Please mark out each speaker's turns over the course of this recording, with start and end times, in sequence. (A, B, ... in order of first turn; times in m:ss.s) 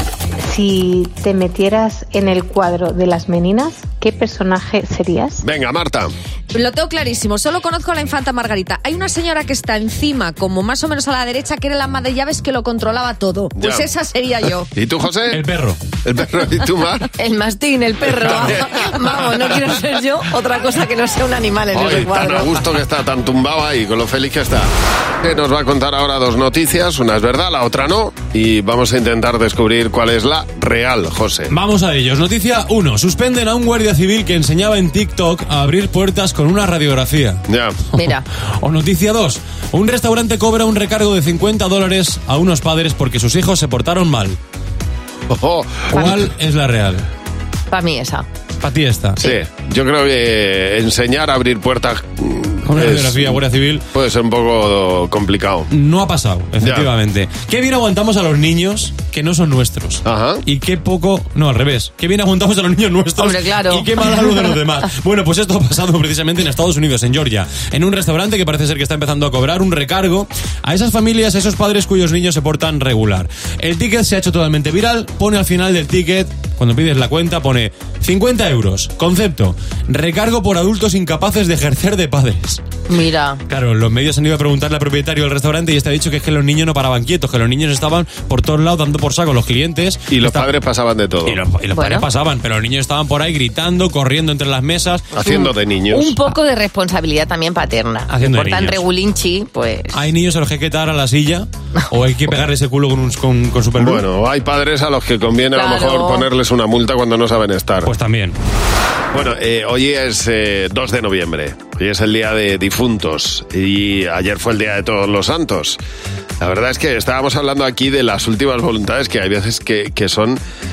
0:00.4-0:05.4 A
0:05.4-0:06.1 B
0:06.5-0:14.7 C
0:13.6-0:13.9 B
0:14.8-0:15.4 B
0:15.3-0:15.8 D
0:16.0-0:17.1 B
0:17.2-0:22.6 E
0:18.3-0:18.6 B
0:21.7-0:31.5 B
0:31.5-0:37.4 D
0:37.5-0:37.8 B
0:37.9-0:38.2 E
0:38.0-0:44.4 D
0:45.3-0:46.1 B
0:45.9-0:47.0 D
0:47.7-0:48.3 E
0:48.6-0:49.3 D
0:49.2-0:53.4 B
0:52.7-0:53.8 D
0:53.9-0:55.7 B
0:55.7-1:22.6 D
0:56.6-0:56.9 B
1:00.1-1:00.4 B
1:03.2-1:04.6 E
1:22.9-1:23.4 E
1:23.5-1:30.5 D
1:30.1-1:31.4 B
1:31.2-1:35.1 D
1:31.7-1:32.1 E
1:35.2-1:36.2 B
1:35.2-1:40.0 E
1:38.1-1:38.8 D
1:39.9-1:44.0 D
1:43.8-1:47.9 B
1:45.6-1:46.3 E
1:47.9-1:48.4 D
1:49.1-1:55.8 B
1:56.4-2:00.4 B